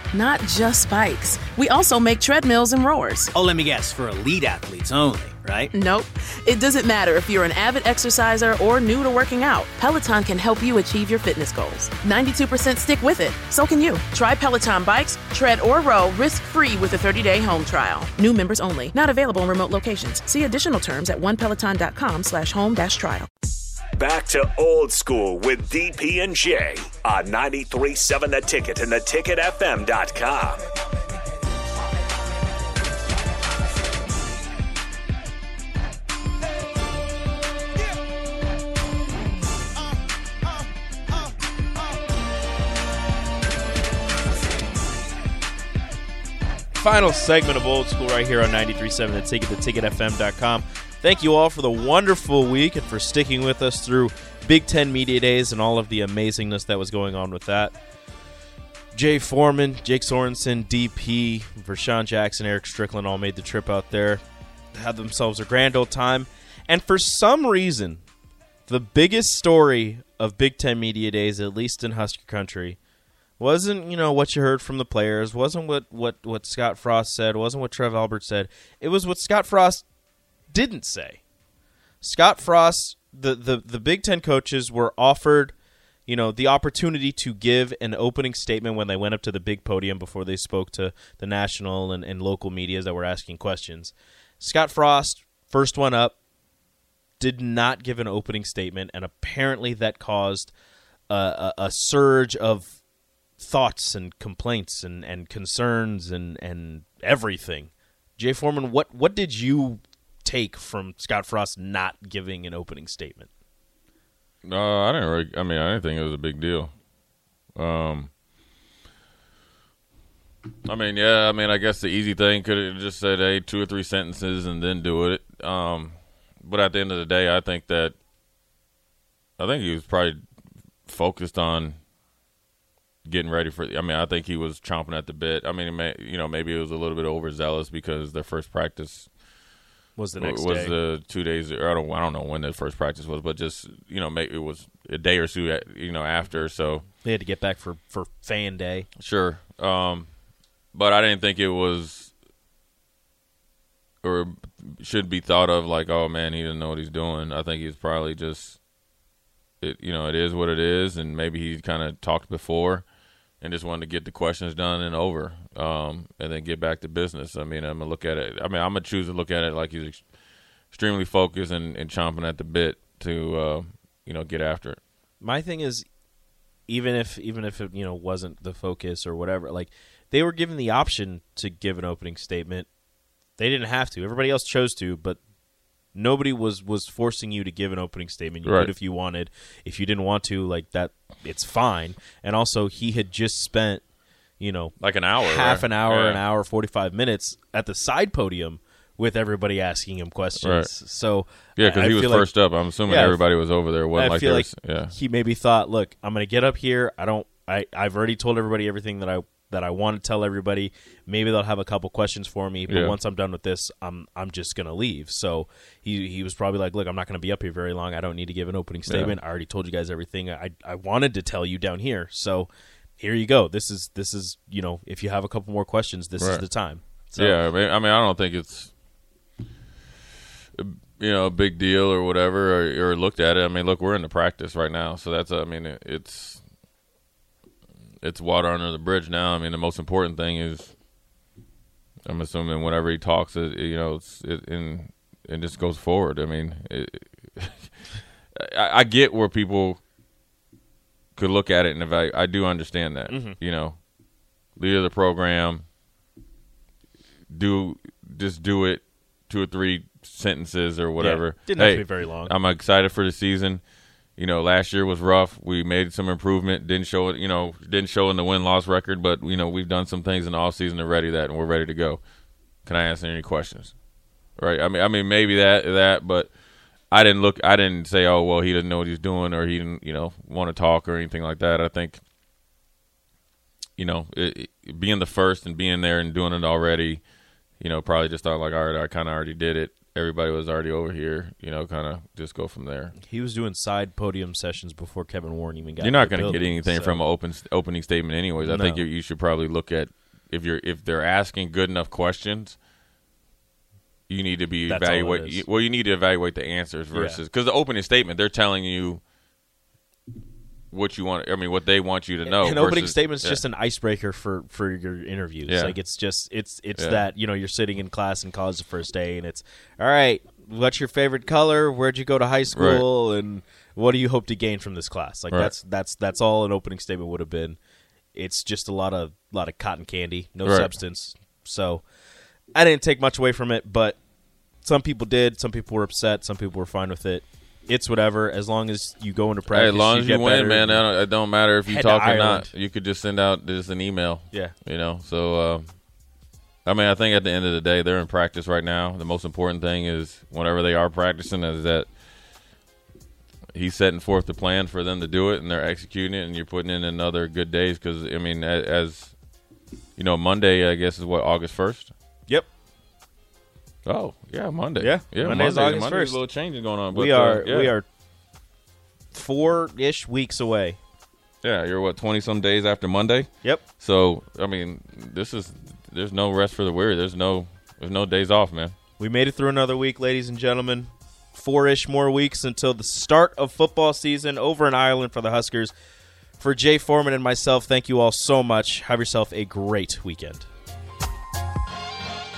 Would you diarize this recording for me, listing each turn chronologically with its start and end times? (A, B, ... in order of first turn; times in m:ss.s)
0:00.1-0:03.3 A
0:03.3-0:05.7 B
0:05.7-0:23.3 A
0:24.0-0:30.6 C
0:46.7-0:57.8 D
0:58.9-1:04.2 D
1:04.7-1:08.0 D
1:08.7-1:12.8 D
1:13.4-1:19.8 D
1:20.5-1:21.2 D
1:22.0-1:25.5 D
1:26.1-1:36.2 D
1:37.2-1:40.5 D
1:41.1-1:42.8 D
1:43.4-1:53.3 D
1:54.4-1:56.7 E
1:57.6-1:58.1 E
2:00.6-2:08.0 E
2:09.4-2:10.2 E
2:10.9-2:11.8 E
2:13.0-2:19.1 E
2:20.0-2:20.8 D
2:20.2-2:26.9 E
2:27.0-2:28.9 D
2:29.0-2:30.1 E
2:30.7-2:32.1 E
2:34.0-2:38.6 E
2:39.6-2:42.9 E
2:43.4-2:50.0 E
2:50.7-2:54.8 E
2:55.2-2:55.9 D
2:56.7-3:02.7 D
3:03.4-3:05.2 D
3:05.9-3:13.8 D
3:08.4-3:08.7 E
3:14.4-3:23.3 D
3:14.8-3:16.2 E
3:20.4-3:20.7 E
3:21.6-3:24.9 E
3:23.9-3:47.4 D
3:32.7-3:33.0 E
3:38.9-3:39.2 E
3:46.2-3:46.4 E
3:47.2-3:48.7 E
3:50.6-3:56.4 E
3:58.0-4:00.7 E
4:02.1-4:07.7 E
4:08.4-4:09.8 E
4:11.2-4:13.8 E
4:13.1-4:13.4 D
4:14.6-4:15.6 E
4:17.3-4:23.6 E
4:21.0-4:22.4 D
4:24.2-4:32.0 E
4:32.7-4:33.7 E
4:34.4-4:36.3 E
4:36.9-4:42.0 E
4:43.8-4:47.0 E
4:47.6-4:52.9 E
4:53.0-4:57.0 D
4:55.8-5:02.6 E
4:58.4-4:58.9 D
5:04.1-5:09.0 E
5:04.7-5:05.4 D
5:06.9-5:07.2 D
5:10.7-5:13.4 E
5:12.3-5:27.6 D
5:15.5-5:15.8 E
5:16.8-5:17.0 E
5:22.5-5:22.8 E
5:28.1-5:31.8 D
5:30.4-5:30.7 E
5:32.6-5:34.0 D
5:34.6-5:40.9 D
5:39.5-5:45.7 E
5:41.7-5:42.5 D
5:46.6-5:51.9 E
5:53.6-5:59.1 E
6:00.0-6:01.9 E
6:03.8-6:07.7 E
6:04.8-6:06.2 D
6:06.9-6:07.8 D
6:09.1-6:10.8 D
6:11.4-6:18.8 E
6:19.0-6:25.7 D
6:26.4-6:30.5 D